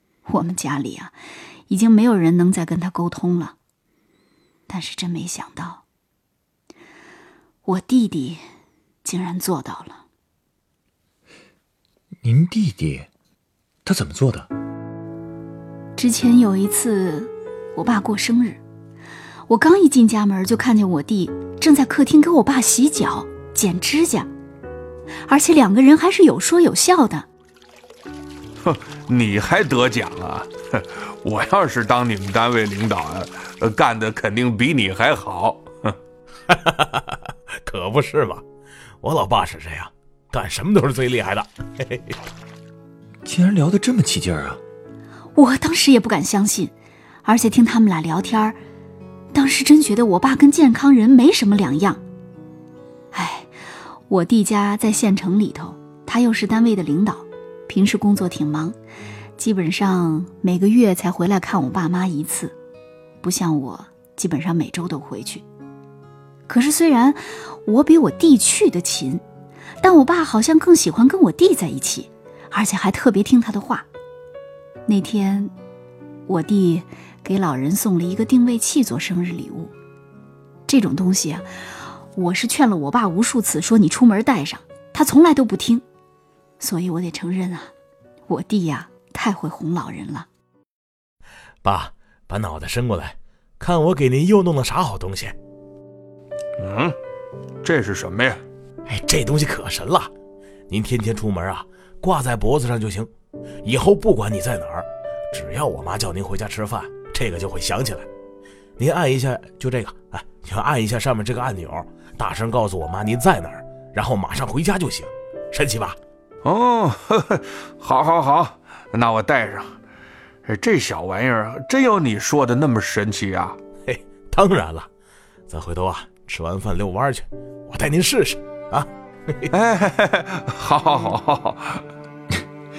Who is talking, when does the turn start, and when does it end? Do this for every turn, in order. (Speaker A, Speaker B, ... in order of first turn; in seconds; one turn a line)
Speaker A: 0.2-1.1
Speaker A: 1.7-3.5
Speaker A: 4.7-5.8
Speaker A: 7.6-8.4
Speaker A: 9.0-10.0
Speaker B: 12.2-13.1
Speaker B: 13.8-14.5
Speaker A: 16.0-18.6
Speaker A: 19.5-24.3
Speaker A: 25.3-27.3
Speaker C: 28.6-35.9
Speaker D: 36.5-38.4
Speaker D: 39.0-42.1
Speaker B: 43.2-44.6
Speaker A: 45.4-46.7
Speaker A: 47.2-48.6
Speaker A: 49.3-52.0
Speaker A: 53.1-53.5
Speaker A: 54.1-58.8
Speaker A: 59.4-62.5
Speaker A: 63.2-65.4
Speaker A: 66.5-69.2
Speaker A: 69.8-73.8
Speaker A: 74.8-75.5
Speaker A: 76.3-79.7
Speaker A: 80.7-81.5
Speaker A: 82.1-85.8
Speaker A: 86.6-87.7
Speaker A: 88.3-90.3
Speaker D: 91.6-95.3
Speaker C: 96.6-97.0
Speaker C: 97.6-98.4
Speaker D: 98.9-100.1
Speaker D: 100.7-103.1
Speaker D: 103.6-108.1
Speaker D: 108.8-116.0
Speaker C: 116.4-119.7
Speaker C: 120.5-123.6
Speaker D: 123.9-124.9
Speaker D: 125.5-129.5
Speaker C: 129.5-131.8